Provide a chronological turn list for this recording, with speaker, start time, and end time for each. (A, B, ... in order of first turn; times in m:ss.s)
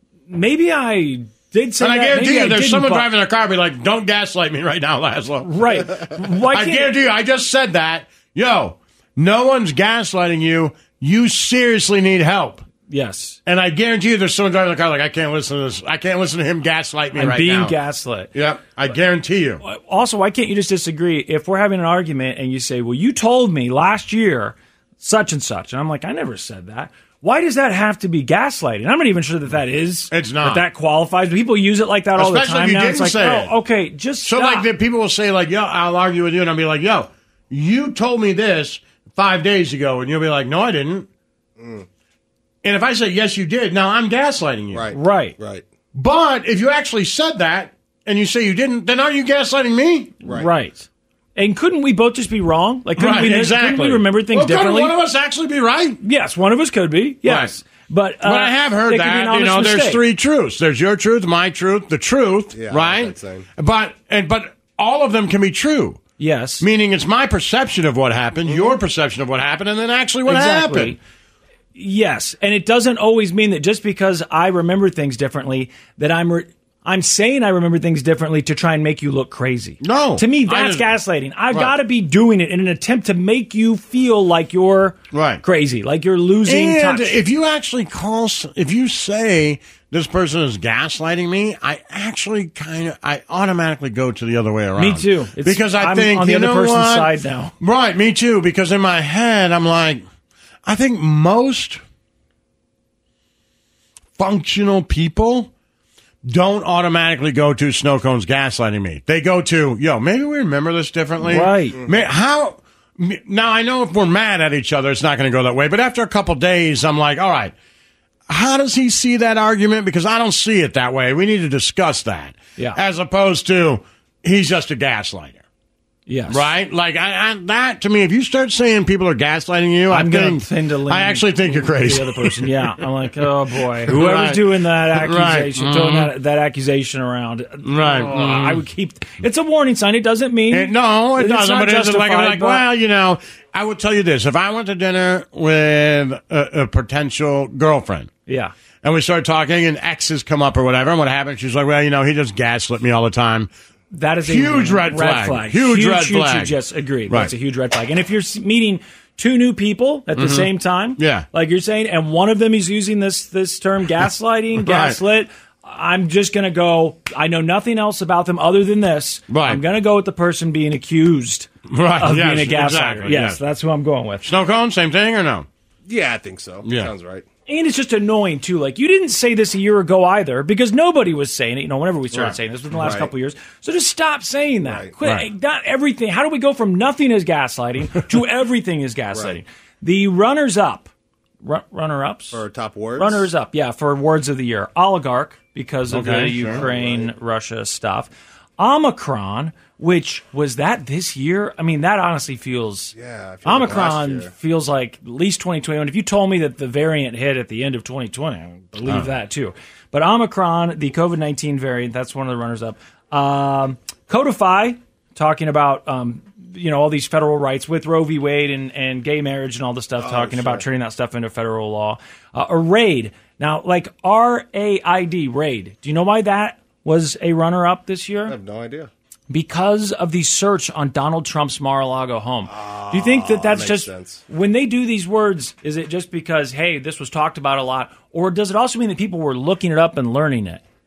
0:00.3-0:03.1 A
0:01.8-0:05.9 B
0:05.4-0:06.9 A
0:06.5-0:12.6 B
0:12.9-0:13.4 A
0:13.4-0:17.8 B
0:17.1-0:18.3 A
0:18.3-0:19.6 B
0:19.6-0:34.7 A
0:30.1-0:30.6 B
0:32.2-0:33.5 B
0:34.2-0:41.1 B
0:41.6-0:41.9 C
0:42.6-0:44.9 B
0:44.7-0:45.6 C
0:44.9-0:45.4 A
0:45.9-0:50.1 B
0:50.2-0:50.5 C
0:50.2-0:54.9 A
0:53.0-0:56.0 B
0:56.0-1:00.0 A
0:57.2-0:57.5 B
0:58.2-1:06.0 B
1:02.5-1:03.4 C
1:06.2-1:06.6 A
1:06.6-1:11.0 B
1:08.5-1:08.8 C
1:10.3-1:11.0 A
1:11.7-1:27.2 A
1:19.8-1:20.9 B
1:25.1-1:25.4 B
1:26.4-1:40.0 B
1:34.8-1:37.5 A
1:40.6-1:41.8 B
1:44.2-1:45.5 B
1:46.2-1:57.5 B
1:51.2-1:51.8 A
1:58.3-2:05.4 B
2:06.1-2:06.5 A
2:06.3-2:12.6 B
2:09.9-2:22.6 A
2:13.8-2:16.1 B
2:17.6-2:18.6 B
2:20.5-2:28.1 B
2:28.3-2:28.5 A
2:28.8-2:33.5 B
2:33.9-2:54.3 A
2:34.2-2:36.5 B
2:40.1-2:41.3 B
2:44.6-2:45.0 B
2:49.3-2:49.6 B
2:51.7-2:53.4 B
2:54.2-2:55.5 B
2:55.9-2:57.2 C
2:56.6-2:56.9 B
2:57.5-3:10.9 A
3:02.8-3:03.1 C
3:04.6-3:04.9 C
3:05.0-3:05.3 B
3:09.1-3:09.4 C
3:11.4-3:12.4 A
3:12.3-3:13.3 C
3:13.0-3:48.4 A
3:15.9-3:16.6 B
3:16.5-3:17.1 C
3:22.9-3:24.3 C
3:40.0-3:40.6 C
3:48.3-3:48.9 C
3:49.3-4:00.6 A
3:52.5-3:54.2 C